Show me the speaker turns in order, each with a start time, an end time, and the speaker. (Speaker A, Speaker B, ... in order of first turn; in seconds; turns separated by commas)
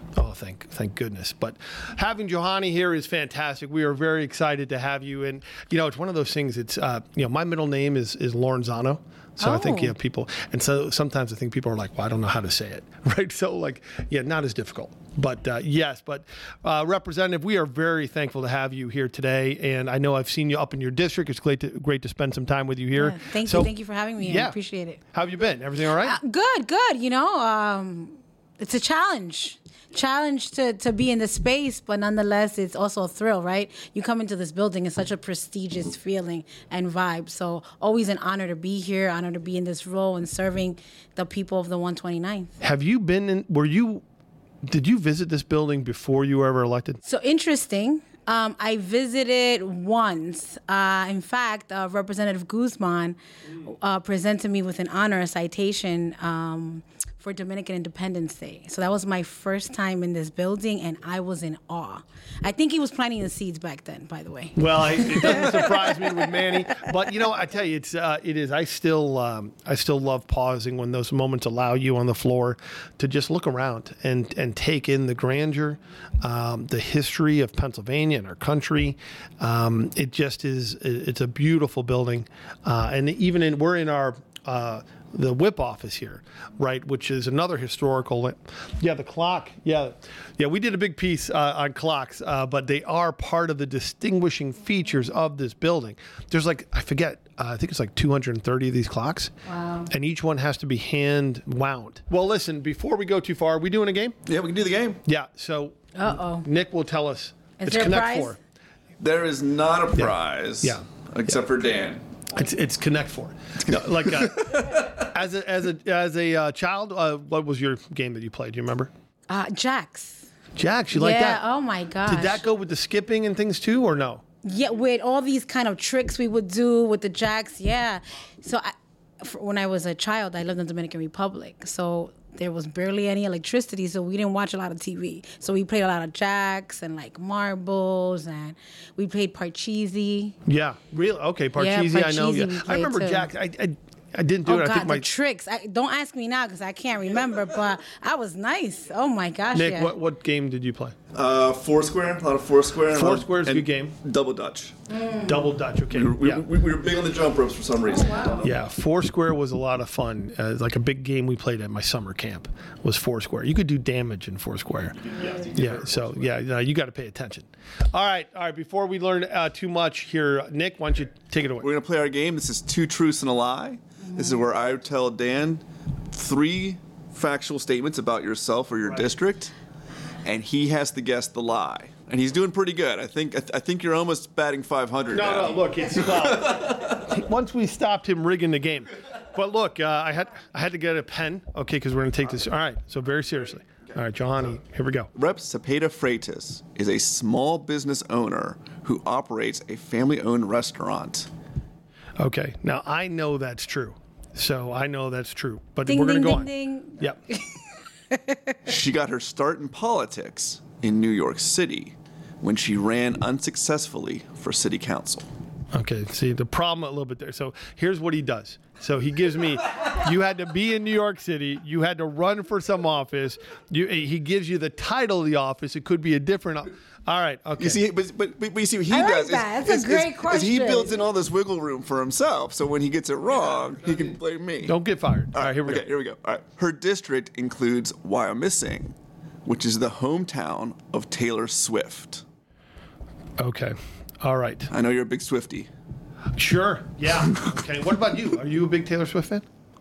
Speaker A: 0.1-24.6, Speaker B: 9.4-9.9, Speaker B: 22.9-25.0, Speaker A: 25.1-26.2, Speaker B: 26.0-42.5, Speaker A: 42.6-44.0, Speaker A: 44.6-47.0, Speaker B: 47.0-66.0, Speaker A: 64.5-99.3, Speaker B: 99.5-99.9, Speaker A: 99.9-104.2, Speaker C: 104.3-105.0, Speaker A: 105.0-108.4, Speaker B: 105.9-106.5, Speaker B: 107.6-108.3, Speaker C: 109.0-112.0, Speaker A: 110.0-111.4, Speaker A: 112.3-118.9, Speaker C: 113.7-114.7, Speaker B: 119.3-120.3, Speaker A: 120.5-121.4, Speaker B: 120.9-122.4, Speaker A: 122.0-124.2, Speaker B: 124.4-140.3, Speaker A: 140.5-145.1, Speaker B: 141.6-143.3, Speaker B: 144.4-149.9, Speaker A: 149.5-150.9, Speaker C: 151.1-154.7, Speaker A: 152.9-153.9, Speaker A: 155.2-156.4, Speaker C: 155.9-158.4, Speaker B: 157.9-158.4, Speaker A: 158.4-171.7, Speaker C: 165.1-166.2, Speaker C: 171.6-179.5, Speaker C: 180.2-186.7, Speaker A: 185.1-195.1, Speaker C: 195.1-201.3, Speaker A: 202.2-207.2, Speaker B: 205.8-208.6, Speaker C: 208.6-215.3, Speaker A: 215.7-227.8, Speaker C: 227.6-234.8, Speaker B: 228.9-231.0, Speaker A: 234.6-235.9, Speaker C: 235.3-242.2, Speaker A: 243.4-244.7, Speaker C: 244.7-245.7, Speaker A: 246.3-249.4